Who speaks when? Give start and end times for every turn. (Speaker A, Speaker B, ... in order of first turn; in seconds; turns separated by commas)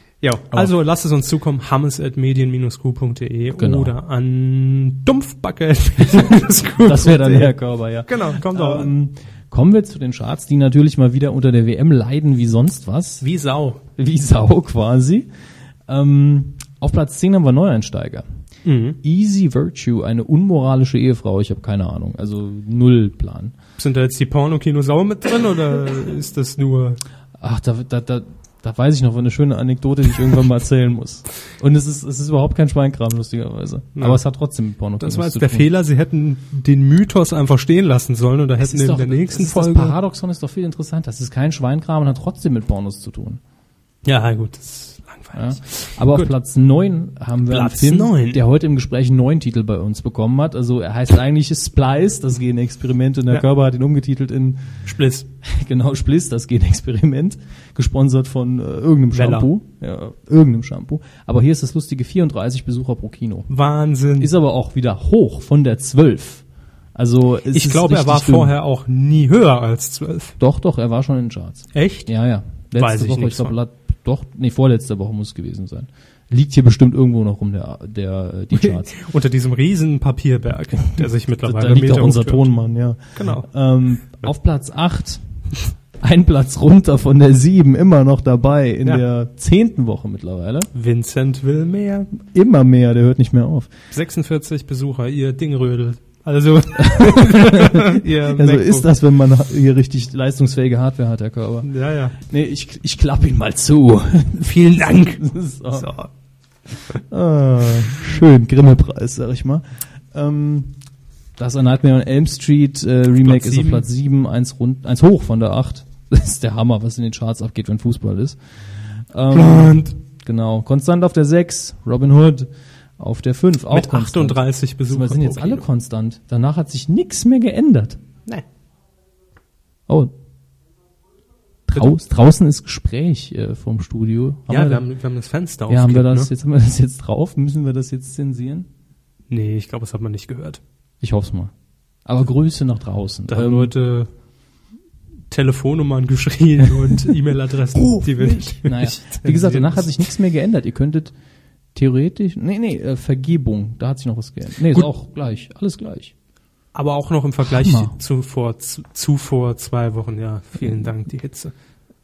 Speaker A: 0.2-7.5, Speaker B: 3.5-4.0, Speaker B: 6.8-13.2, Speaker A: 8.1-8.9, Speaker A: 13.2-13.8, Speaker B: 14.0-15.3, Speaker B: 15.9-18.2, Speaker A: 18.6-19.0, Speaker B: 19.0-23.5, Speaker A: 23.8-27.0, Speaker B: 27.4-35.7, Speaker A: 35.0-40.0, Speaker B: 38.6-43.4, Speaker A: 44.0-46.3, Speaker B: 45.3-54.8, Speaker A: 47.5-48.4, Speaker A: 54.9-55.2, Speaker B: 55.4-63.5, Speaker A: 59.1-59.5, Speaker A: 63.5-64.3, Speaker B: 64.2-66.4, Speaker B: 66.9-68.5, Speaker A: 67.5-70.3, Speaker B: 70.4-78.9, Speaker A: 71.7-72.1, Speaker A: 72.8-73.5, Speaker A: 78.5-82.5, Speaker B: 81.0-85.2, Speaker A: 83.1-83.5, Speaker B: 86.0-90.7, Speaker A: 90.7-92.1, Speaker B: 92.1-93.7, Speaker A: 93.9-98.9, Speaker B: 96.8-105.9, Speaker A: 101.6-102.2, Speaker A: 104.4-106.1, Speaker B: 107.1-110.8, Speaker B: 111.4-118.4, Speaker A: 113.2-113.8, Speaker B: 119.0-128.0, Speaker A: 119.3-120.0, Speaker A: 123.7-125.7, Speaker B: 131.7-134.8, Speaker A: 134.5-136.3, Speaker B: 135.7-138.7, Speaker A: 139.3-140.6, Speaker B: 141.0-141.5, Speaker B: 142.1-143.7, Speaker A: 143.3-144.1, Speaker A: 145.3-149.9, Speaker B: 147.8-151.1, Speaker B: 151.7-156.1, Speaker A: 156.7-161.5, Speaker B: 157.4-157.9